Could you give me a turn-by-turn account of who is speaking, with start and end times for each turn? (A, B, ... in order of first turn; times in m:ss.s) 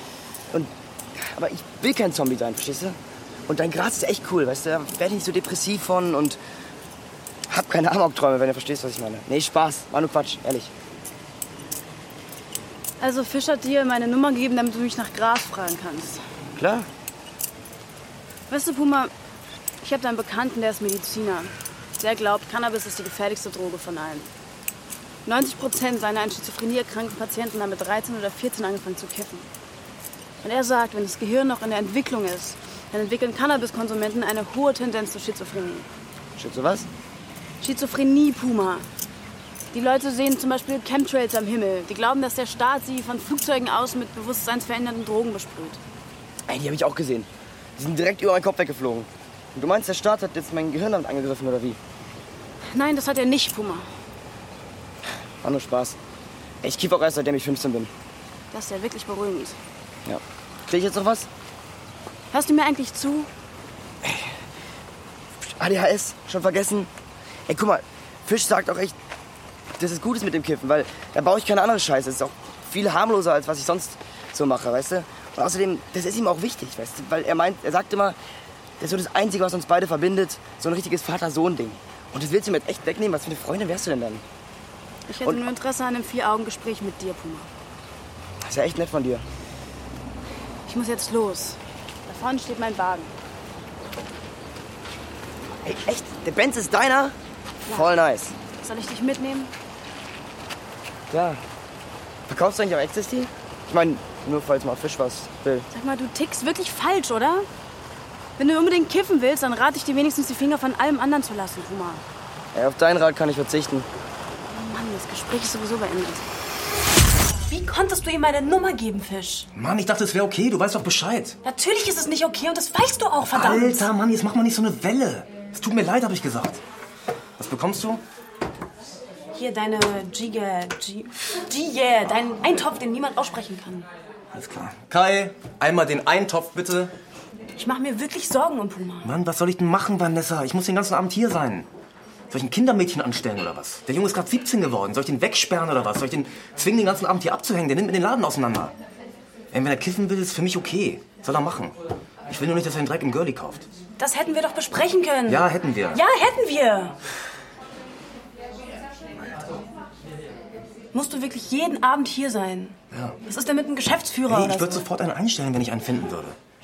0:00.5-0:06.4 A
0:07.5-0:10.7 A
0:13.0-0:16.2 B
0:16.6-0:16.9 A
0:18.5-0:19.1 B
0:19.8-0:24.3 B
0:25.2-0:29.5 B
0:30.4-0:35.9 B
0:36.4-0:36.9 A
0:37.6-0:38.8 B
0:39.7-0:45.8 B
0:46.5-0:51.8 A
0:52.7-0:53.8 B
0:55.4-0:56.0 A
0:56.6-0:57.9 A
0:58.5-0:59.6 B
1:00.0-1:01.3 A
1:02.3-1:03.3 B
1:04.0-1:04.3 A
1:05.4-1:06.9 A
1:07.5-1:09.0 A
1:09.8-1:18.2 A
1:18.8-1:24.2 A
1:25.1-1:27.5 B
1:28.4-1:29.2 A
1:30.7-1:33.1 B
1:35.6-1:37.1 A
1:37.7-1:37.9 B
1:37.7-1:38.3 A
1:38.6-1:39.5 B
1:41.1-1:41.4 A
1:42.3-1:45.7 A
1:45.7-1:47.5 B
1:48.4-1:52.0 B
1:52.5-1:53.9 A
1:54.5-1:56.2 B
1:57.5-1:59.5 B
1:59.5-2:01.4 C
2:01.4-2:03.9 B
2:03.2-2:06.6 C
2:07.4-2:08.0 C
2:09.3-2:13.9 B
2:14.3-2:16.9 C
2:17.6-2:19.1 B
2:19.0-2:21.7 C
2:22.3-2:28.7 C
2:29.5-2:31.7 C
2:32.3-2:33.7 C
2:34.0-2:37.0 B
2:35.3-2:36.0 C
2:40.9-2:44.8 B
2:42.9-2:43.2 C
2:44.2-2:46.4 C